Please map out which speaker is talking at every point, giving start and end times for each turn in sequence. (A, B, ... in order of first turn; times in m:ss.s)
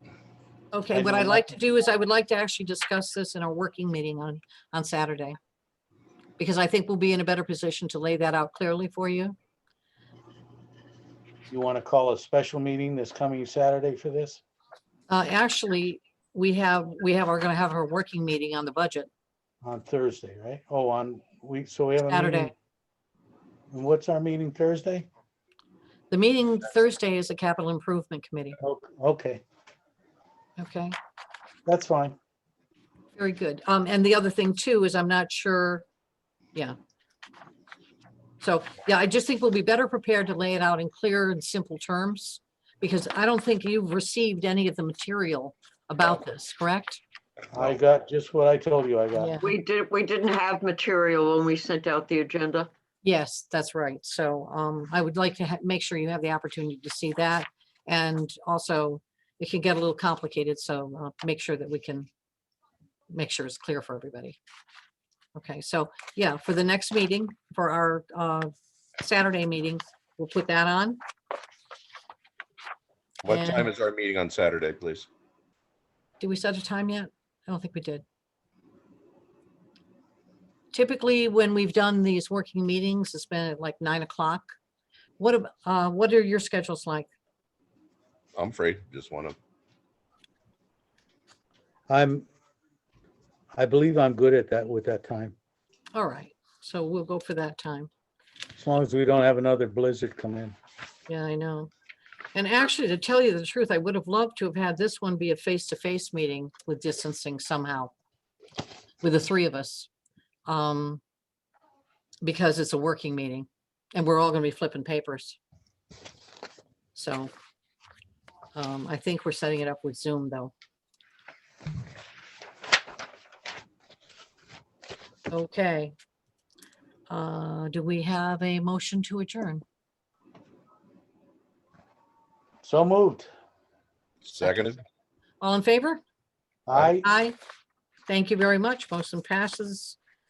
0:00.7-0:05.4 A
0:00.9-0:01.6 B
0:06.4-0:09.4 A
0:11.5-0:14.4 B
0:15.1-0:19.1 A
0:19.6-0:22.5 B
0:22.1-0:22.5 A
0:23.7-0:25.1 B
0:26.1-0:28.6 A
0:28.6-0:29.4 B
0:30.6-0:31.0 A
0:31.7-0:32.2 B
0:33.2-0:35.8 A
0:38.4-0:47.0 A
0:47.5-0:49.4 B
0:49.2-0:49.5 A
0:49.4-0:52.7 C
0:53.0-1:02.1 A
1:03.1-1:04.4 A
1:05.4-1:11.0 A
1:13.2-1:15.1 D
1:13.3-1:13.7 A
1:16.2-1:18.0 A
1:20.7-1:24.5 A
1:25.2-1:27.1 A
1:28.4-1:29.4 D
1:31.9-1:32.3 B
1:33.6-1:35.4 B
1:35.9-1:37.9 A
1:38.6-1:40.6 B
1:41.1-1:41.7 A
1:42.4-1:47.9 A
1:49.0-1:49.9 A
1:50.5-1:51.0 A
1:52.2-1:55.4 A
1:57.0-1:57.3 A
1:58.6-2:00.5 A
2:05.3-2:05.9 A
2:07.1-2:09.6 A
2:12.6-2:13.3 B
2:14.2-2:14.8 D
2:15.4-2:16.0 A
2:16.7-2:17.1 B
2:17.0-2:17.4 A
2:18.1-2:20.0 A